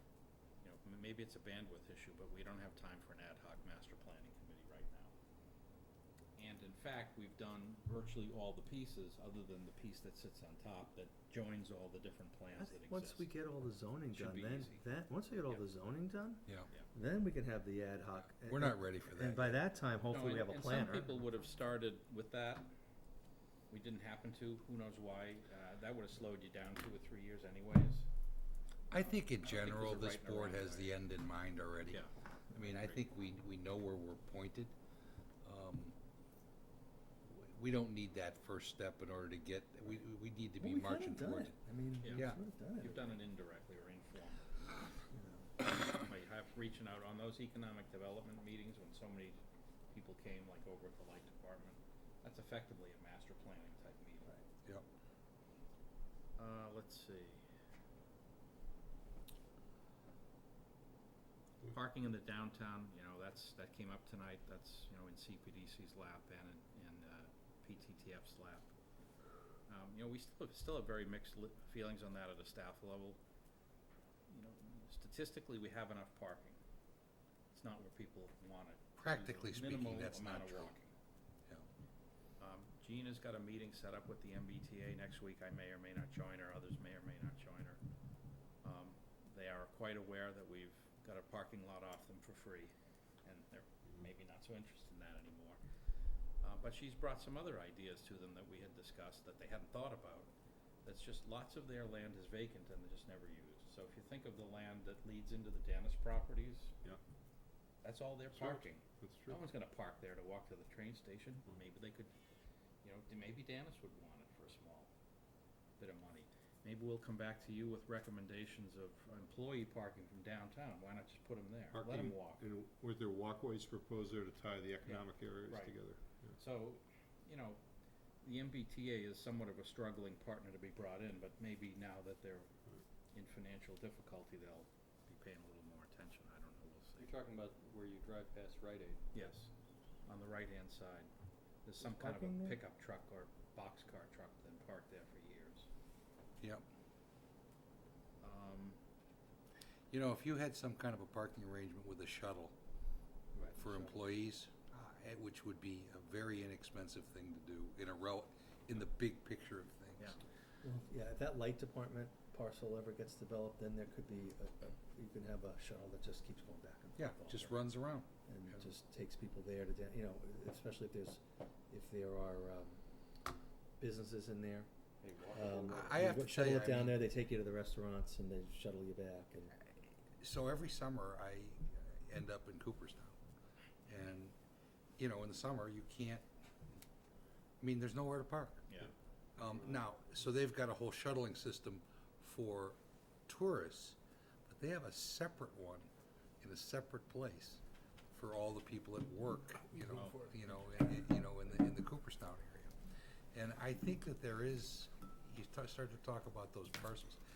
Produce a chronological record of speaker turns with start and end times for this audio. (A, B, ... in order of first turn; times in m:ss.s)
0:00.6-0:05.1 A
0:06.4-0:13.3 A
0:12.6-0:21.1 B
0:14.1-0:14.8 A
0:18.4-0:19.6 C
0:20.1-0:22.7 A
0:23.7-0:28.1 A
0:28.9-0:34.7 C
0:29.4-0:30.9 A
0:35.4-0:36.0 C
0:37.3-0:41.6 C
0:40.6-0:43.1 B
0:42.0-0:44.4 A
0:42.1-0:42.4 C
0:45.1-0:45.5 B
0:45.8-0:49.4 A
0:49.9-0:54.4 A
0:56.4-0:57.4 A
1:01.7-1:08.7 A
1:09.7-1:13.2 A
1:14.3-1:16.6 A
1:17.5-1:20.9 A
1:19.0-1:20.7 C
1:22.4-1:27.8 A
1:28.6-1:32.7 A
1:33.2-1:35.6 A
1:36.4-1:40.3 A
1:40.8-1:46.8 A
1:47.8-1:52.1 A
1:48.3-1:49.4 D
1:52.8-1:54.9 A
1:55.8-2:02.4 A
2:01.7-2:06.4 D
2:04.8-2:05.8 A
2:06.4-2:07.6 A
2:08.2-2:12.5 A
2:13.1-2:17.1 A
2:17.0-2:19.0 E
2:19.1-2:19.5 A
2:20.1-2:21.1 A
2:21.6-2:25.7 A
2:21.8-2:22.6 B
2:26.4-2:26.7 C
2:28.2-2:28.8 A
2:29.9-2:32.6 C
2:33.3-2:34.0 B
2:33.5-2:40.2 C
2:40.6-2:47.3 B
2:47.0-2:48.7 C
2:47.3-2:47.6 A
2:48.3-2:52.8 B
2:53.8-2:54.7 B
2:55.0-2:55.9 E
2:55.3-2:59.5 B
2:55.6-2:57.0 C
3:00.2-3:03.2 C
3:03.9-3:04.4 C
3:05.0-3:06.2 C
3:07.6-3:08.7 C
3:09.4-3:15.9 C
3:16.4-3:17.6 C
3:18.1-3:22.7 C
3:19.8-3:20.4 A
3:23.3-3:27.2 C